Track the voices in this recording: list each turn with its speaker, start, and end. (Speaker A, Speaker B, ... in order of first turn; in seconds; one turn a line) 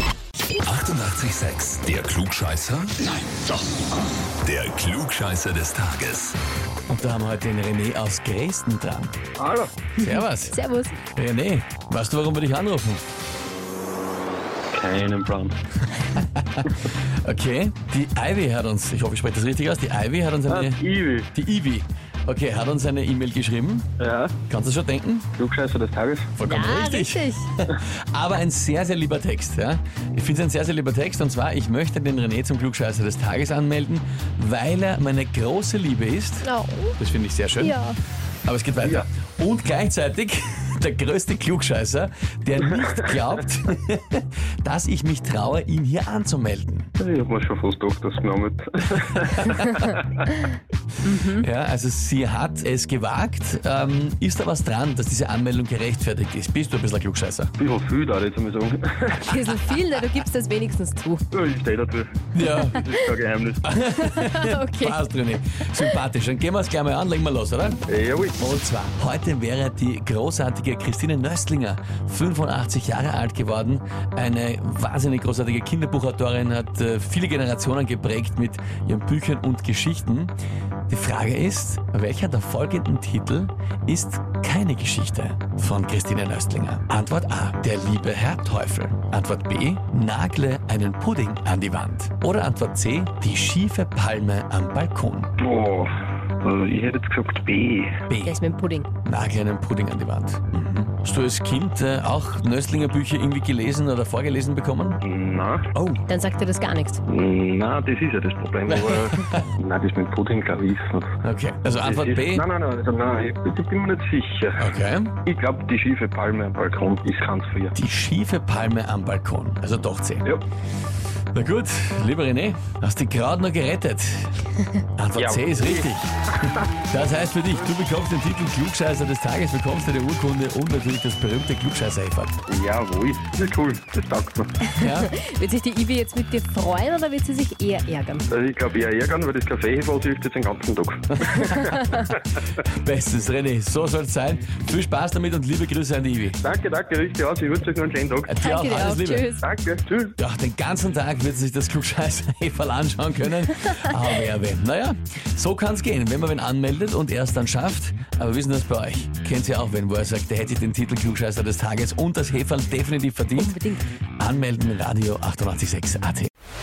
Speaker A: 0.6-3.0
Speaker A: 4.4-6.3
Speaker B: 6.9-9.1
Speaker C: 9.4-9.8
Speaker B: 10.0-10.6
Speaker D: 10.0-11.0
Speaker B: 11.1-13.1
Speaker C: 14.7-15.5
Speaker B: 16.0-16.7
Speaker B: 17.2-20.8
Speaker C: 20.5-21.3
Speaker B: 21.3-23.9
Speaker C: 24.0-24.3
Speaker B: 24.5-25.3
Speaker C: 25.4-26.3
Speaker B: 26.4-37.8
Speaker D: 26.4-27.5
Speaker D: 36.4-37.0
Speaker D: 37.6-38.0
Speaker B: 38.5-46.9
Speaker C: 47.0-50.2
Speaker B: 49.0-49.6
Speaker D: 51.0-51.5
Speaker B: 51.3-57.5
Speaker C: 57.6-59.3
Speaker D: 59.3-61.2
Speaker B: 59.3-59.8
Speaker C: 61.3-62.1
Speaker B: 62.3-62.8
Speaker D: 62.4-62.8
Speaker C: 62.6-63.6
Speaker B: 63.6-67.8
Speaker D: 63.9-65.1
Speaker C: 67.9-68.4
Speaker B: 68.4-80.3
Speaker B: 80.9-95.3
Speaker C: 95.4-98.0
Speaker B: 98.1-98.4
Speaker D: 98.2-98.9
Speaker B: 99.0-105.0
Speaker C: 105.0-105.7
Speaker B: 105.7-106.0
Speaker D: 106.1-107.0
Speaker C: 107.0-111.1
Speaker B: 108.7-109.4
Speaker B: 111.2-112.5
Speaker C: 111.8-114.7
Speaker B: 114.6-115.1
Speaker C: 115.2-117.7
Speaker B: 117.7-120.3
Speaker B: 121.3-124.4
Speaker B: 125.0-132.4
Speaker C: 125.1-125.9
Speaker C: 132.5-134.5
Speaker D: 134.7-138.3
Speaker B: 134.7-135.1
Speaker C: 138.3-142.0
Speaker B: 142.6-146.4
Speaker C: 146.4-148.3
Speaker B: 148.3-149.2
Speaker D: 148.4-149.4
Speaker C: 149.4-150.1
Speaker B: 150.2-163.6
Speaker D: 163.3-163.8
Speaker B: 164.2-166.3